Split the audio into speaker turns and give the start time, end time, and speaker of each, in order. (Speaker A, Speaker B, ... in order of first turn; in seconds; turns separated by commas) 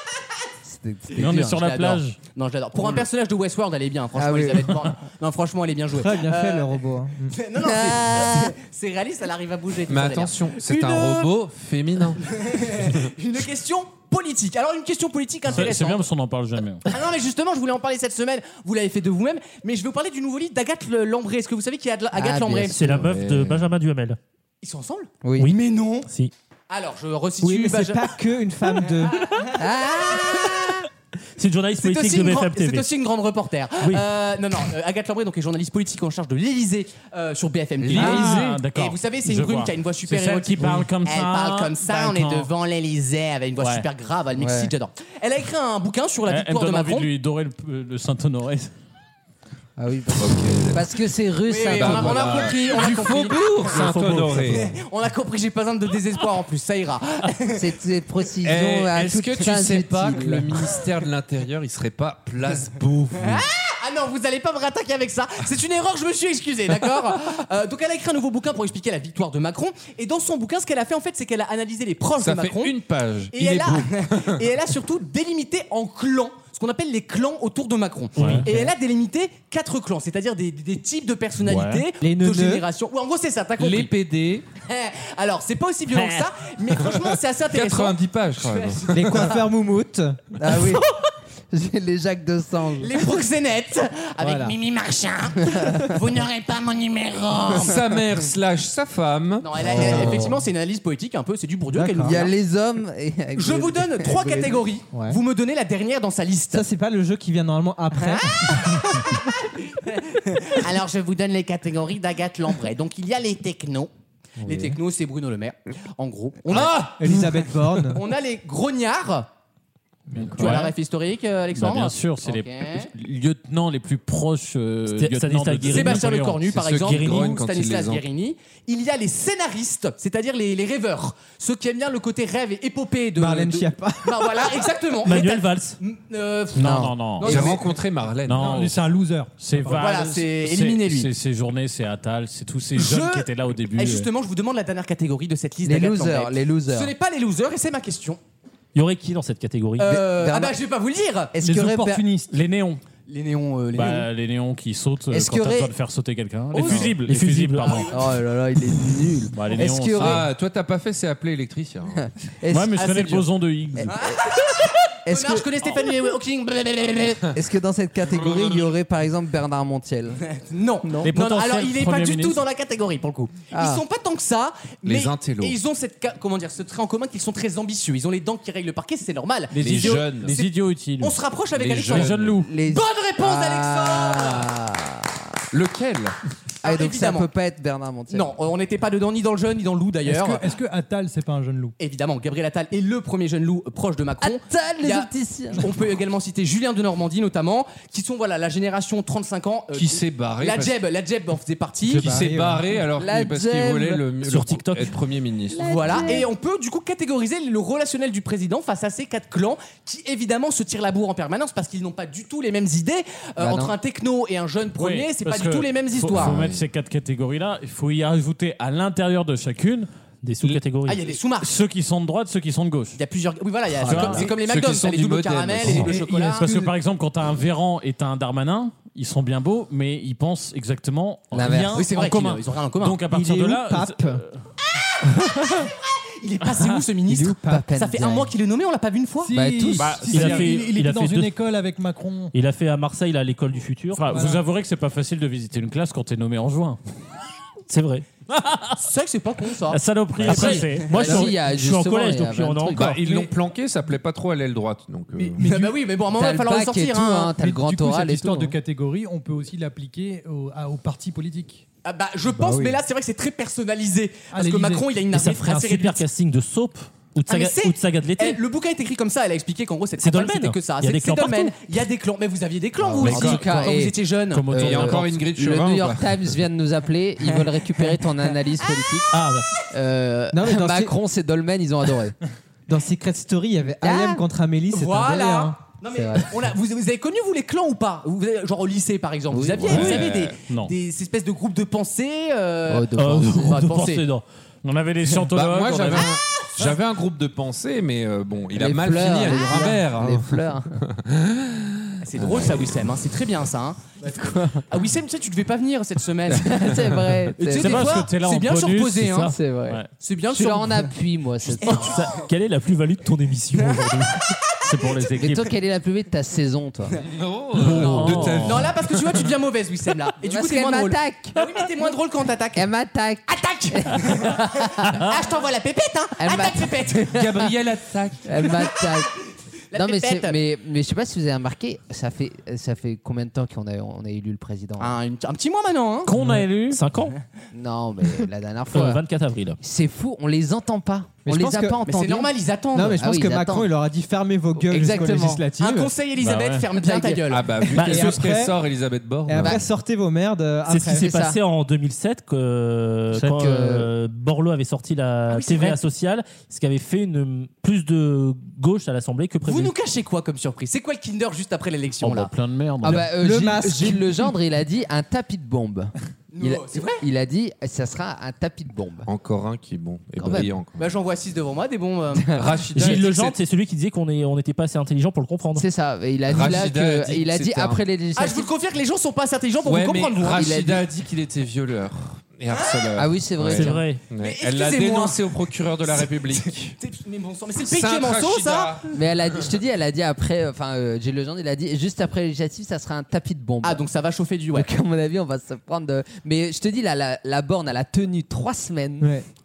Speaker A: 0.6-1.6, Speaker B: 1.1-2.2, Speaker C: 1.3-11.3, Speaker A: 4.1-4.9, Speaker D: 5.9-7.3, Speaker A: 7.6-8.5, Speaker E: 9.9-12.4, Speaker C: 12.2-16.1, Speaker B: 15.5-16.9, Speaker C: 16.9-22.9, Speaker A: 22.1-23.1, Speaker F: 22.7-24.2, Speaker E: 22.9-23.7, Speaker C: 24.6-26.1, Speaker A: 25.2-25.5, Speaker F: 26.1-26.3, Speaker C: 26.7-28.2, Speaker D: 27.4-29.3, Speaker A: 29.5-30.9, Speaker F: 31.4-32.9, Speaker C: 31.8-47.1, Speaker A: 37.8-38.5, Speaker B: 37.9-42.5, Speaker D: 38.0-38.4, Speaker B: 43.6-43.9, Speaker A: 44.4-44.7, Speaker B: 46.3-48.7, Speaker A: 49.8-52.5, Speaker E: 50.1-51.0, Speaker C: 51.5-53.6, Speaker E: 51.7-54.7, Speaker F: 53.6-54.6, Speaker C: 54.5-57.6, Speaker A: 57.5-60.8, Speaker E: 58.4-63.4, Speaker C: 63.3-72.7, Speaker E: 72.2-74.4, Speaker C: 73.3-83.9, Speaker B: 78.2-78.5, Speaker B: 81.4-81.8, Speaker D: 82.0-82.6, Speaker E: 83.6-84.5, Speaker C: 84.6-89.5, Speaker E: 87.5-89.2, Speaker D: 88.9-90.3, Speaker A: 90.3-90.9, Speaker A: 91.5-93.0, Speaker C: 92.8-97.8, Speaker D: 94.2-94.5, Speaker E: 97.5-100.2, Speaker C: 99.4-102.3, Speaker D: 99.7-100.2, Speaker A: 99.7-100.3, Speaker D: 101.7-102.2, Speaker A: 102.0-104.7, Speaker C: 103.3-106.6, Speaker D: 104.9-105.2, Speaker D: 106.5-108.7, Speaker C: 107.9-109.2, Speaker C: 109.7-113.9, Speaker D: 114.4-114.8, Speaker C: 114.4-117.2, Speaker E: 116.5-117.5, Speaker D: 116.9-118.0, Speaker C: 117.8-119.3, Speaker D: 120.1-120.7, Speaker B: 120.2-120.7, Speaker C: 120.3-122.9, Speaker B: 121.5-126.4, Speaker F: 124.9-126.0, Speaker C: 125.7-137.7, Speaker E: 126.4-128.0, Speaker D: 133.2-134.7, Speaker F: 135.0-135.8, Speaker B: 136.6-137.4, Speaker A: 136.6-136.9, Speaker E: 137.2-138.7, Speaker B: 138.3-138.8, Speaker G: 138.4-139.9, Speaker B: 139.4-144.1, Speaker C: 139.7-141.1, Speaker C: 142.8-148.2, Speaker A: 145.6-146.9, Speaker F: 148.7-149.9, Speaker C: 149.8-152.1, Speaker A: 149.8-150.5, Speaker A: 151.3-151.7, Speaker G: 151.4-152.3, Speaker B: 152.3-152.8, Speaker C: 153.1-154.1, Speaker B: 153.7-157.9, Speaker A: 155.1-155.7, Speaker C: 156.5-156.9, Speaker F: 156.9-157.9, Speaker C: 157.6-158.0, Speaker A: 157.9-160.2, Speaker B: 159.3-160.2, Speaker E: 159.9-162.1, Speaker A: 161.9-163.1, Speaker B: 162.5-163.9, Speaker C: 162.7-163.2, Speaker C: 163.9-167.2, Speaker A: 164.0-164.4, Speaker A: 165.0-165.8, Speaker A: 167.3-170.2, Speaker E: 168.0-168.7, Speaker C: 170.3-182.1, Speaker B: 171.0-172.4, Speaker A: 173.5-173.8, Speaker E: 174.8-175.6, Speaker B: 179.5-181.2, Speaker E: 179.6-180.3, Speaker E: 181.5-182.4, Speaker B: 181.9-182.5, Speaker A: 182.4-185.2, Speaker C: 182.6-184.5, Speaker E: 185.5-186.2, Speaker C: 186.6-187.3, Speaker A: 186.6-188.3, Speaker C: 188.1-190.4, Speaker G: 190.1-191.7, Speaker C: 191.8-202.1, Speaker A: 194.2-195.7, Speaker E: 199.7-200.8, Speaker D: 201.8-202.8, Speaker E: 202.0-206.1, Speaker A: 203.0-204.0, Speaker F: 204.2-204.9, Speaker A: 205.5-206.3, Speaker C: 205.6-216.4, Speaker A: 213.4-213.8, Speaker B: 214.8-219.9, Speaker E: 216.1-216.6, Speaker F: 220.2-221.1, Speaker C: 220.8-221.5, Speaker B: 221.4-223.0, Speaker C: 222.9-226.5, Speaker B: 223.8-224.3, Speaker E: 223.9-226.1, Speaker A: 223.9-224.2, Speaker B: 225.6-234.4, Speaker A: 231.3-231.9, Speaker C: 231.7-233.0, Speaker D: 233.1-234.2, Speaker C: 235.5-239.3, Speaker D: 237.1-237.7, Speaker A: 237.4-238.3, Speaker G: 239.2-242.3, Speaker A: 239.3-240.4, Speaker B: 239.8-240.6, Speaker F: 240.1-241.3, Speaker F: 242.3-244.3, Speaker B: 243.9-246.8, Speaker G: 244.1-244.4, Speaker F: 247.7-248.0, Speaker B: 248.3-248.8, Speaker C: 248.8-249.8, Speaker F: 249.7-253.0, Speaker B: 249.8-251.3, Speaker A: 250.2-253.0, Speaker E: 252.7-255.4, Speaker G: 255.2-255.8, Speaker C: 255.4-257.3, Speaker A: 256.1-258.6, Speaker G: 257.4-261.6, Speaker C: 261.8-266.0, Speaker D: 262.3-262.8, Speaker G: 264.3-265.1, Speaker F: 265.1-268.4, Speaker C: 267.3-274.4, Speaker F: 270.0-271.5, Speaker A: 272.8-274.0, Speaker B: 273.0-273.7, Speaker B: 274.3-275.1, Speaker A: 274.5-279.1, Speaker E: 274.5-276.3, Speaker F: 279.1-279.5, Speaker C: 279.7-280.3, Speaker D: 280.3-280.9, Speaker A: 280.4-282.2, Speaker D: 282.7-285.6, Speaker A: 283.8-284.2, Speaker C: 284.7-294.1, Speaker A: 285.9-286.5, Speaker A: 289.3-290.1, Speaker E: 289.6-290.3, Speaker B: 289.7-290.7, Speaker A: 292.7-293.6, Speaker F: 292.9-294.2, Speaker B: 294.6-296.1, Speaker E: 295.0-302.8, Speaker A: 298.5-300.8, Speaker C: 302.0-304.0, Speaker A: 304.0-304.6, Speaker C: 304.7-309.3, Speaker A: 306.3-308.0, Speaker B: 307.5-309.9, Speaker A: 309.3-312.0, Speaker C: 310.0-310.9, Speaker C: 311.6-312.0, Speaker F: 311.7-314.3, Speaker B: 314.6-315.5, Speaker A: 315.1-317.0, Speaker E: 317.0-319.3, Speaker B: 317.6-318.7, Speaker C: 317.8-322.6, Speaker A: 320.2-321.9, Speaker A: 322.5-325.1, Speaker C: 323.3-327.1, Speaker A: 326.2-327.6, Speaker E: 327.1-328.5, Speaker A: 328.2-329.2, Speaker C: 329.7-330.4, Speaker A: 329.7-335.0, Speaker C: 334.8-336.1, Speaker B: 336.1-336.8, Speaker F: 336.4-337.2, Speaker A: 337.5-339.0, Speaker F: 338.7-339.6, Speaker A: 339.6-342.3, Speaker D: 341.2-341.8, Speaker C: 341.6-343.1, Speaker D: 342.7-345.9, Speaker A: 343.0-343.7, Speaker A: 344.6-345.4, Speaker C: 344.7-347.5, Speaker B: 346.2-346.7, Speaker D: 346.9-348.5, Speaker E: 347.3-349.7, Speaker F: 347.7-348.2, Speaker D: 349.3-351.1, Speaker A: 349.3-349.6, Speaker F: 350.6-359.7, Speaker A: 350.9-351.4, Speaker A: 353.3-353.9, Speaker C: 355.3-355.8, Speaker C: 359.4-362.3, Speaker B: 362.0-363.1, Speaker A: 362.8-369.1, Speaker D: 362.9-364.3, Speaker C: 366.3-367.0, Speaker E: 369.0-370.9, Speaker A: 370.2-370.5, Speaker C: 370.8-372.4, Speaker E: 372.3-373.4, Speaker F: 372.7-375.6, Speaker A: 375.6-378.5, Speaker E: 376.2-377.8, Speaker C: 378.1-380.5, Speaker E: 379.6-386.8, Speaker A: 380.3-380.9, Speaker C: 382.5-382.9, Speaker A: 382.9-383.8, Speaker F: 383.5-384.0, Speaker C: 384.2-385.3, Speaker C: 386.0-388.8, Speaker E: 387.6-389.0, Speaker A: 388.9-393.8, Speaker C: 393.6-394.7, Speaker A: 394.5-399.1, Speaker D: 399.0-399.2